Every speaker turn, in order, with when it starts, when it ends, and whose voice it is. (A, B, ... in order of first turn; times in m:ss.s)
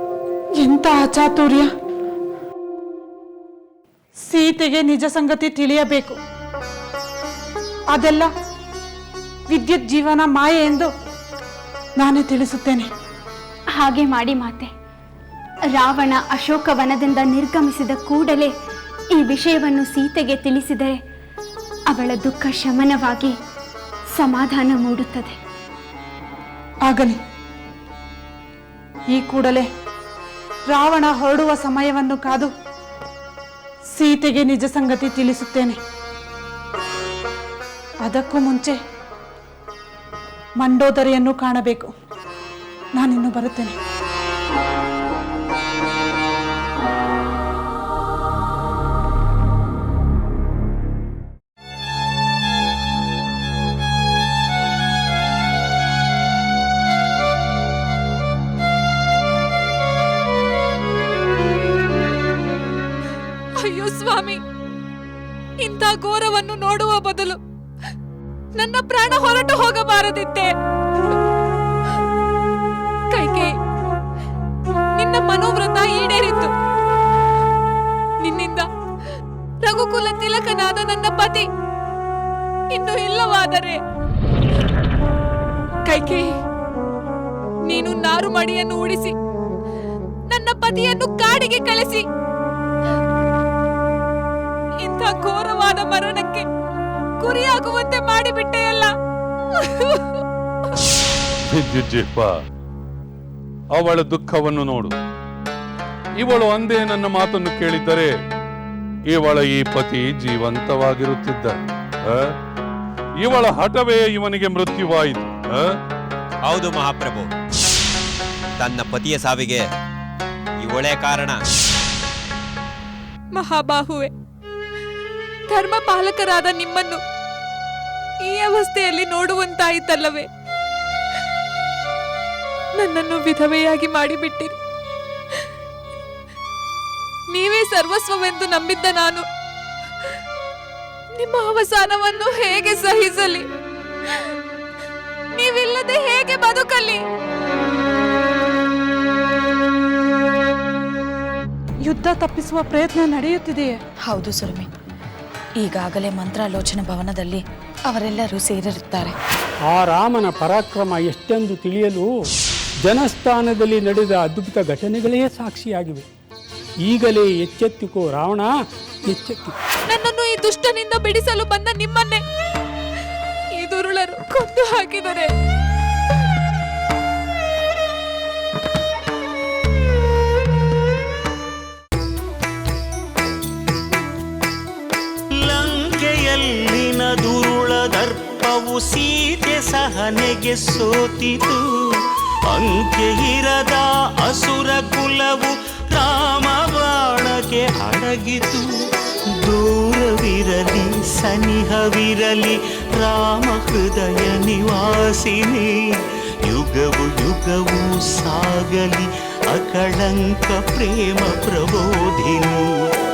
0:00.6-0:01.7 A
0:04.2-0:06.2 A
0:07.9-0:08.3 A
0:09.5-0:10.9 A
0:12.0-0:12.9 A
0:13.7-0:14.7 B
0:15.7-0:18.5 B
0:19.1-0:21.0 B
0:21.9-0:23.4 B
0:24.1-0:25.4 B
0:26.8-0:27.2 A
0:29.1-0:29.7 A
0:30.7-0:32.5 A
0:33.9-0:35.8 A
0:38.0-0:38.8 A
0:40.6-0:41.9 A
0:42.9-0:43.8 A
1:03.6-1:04.4 C
1:05.6-1:07.4 C
1:08.6-1:10.5 C
1:13.1-1:13.5 C
1:15.0-1:16.5 C
1:18.2-1:18.6 C
1:19.6-1:21.4 C
1:22.7-1:23.8 C
1:25.8-1:26.3 C
1:27.7-1:29.1 C
1:30.3-1:32.0 C
1:34.8-1:36.4 C
1:37.2-1:38.9 C
1:39.5-1:40.2 C
1:41.5-1:42.3 D
1:43.7-1:44.9 D
1:46.2-1:48.1 D
1:49.1-1:52.3 D
1:53.2-1:55.8 D
1:56.4-1:57.3 E
1:58.6-1:59.7 E
2:00.6-2:01.4 E
2:03.4-2:04.1 C
2:05.5-2:07.0 C
2:08.3-2:10.3 C
2:12.8-2:14.5 C
2:17.3-2:19.2 C
2:21.1-2:23.4 C
2:25.4-2:27.0 C
2:31.8-2:33.8 A
2:34.0-2:34.7 F
2:35.6-2:39.1 F
2:39.7-2:42.1 G
2:42.8-2:46.0 G
2:46.8-2:48.5 G
2:49.0-2:49.5 G
2:49.9-2:52.2 C
2:53.6-2:55.3 C
3:05.4-3:18.6 H
3:19.4-3:25.7 H
3:26.5-3:32.9 H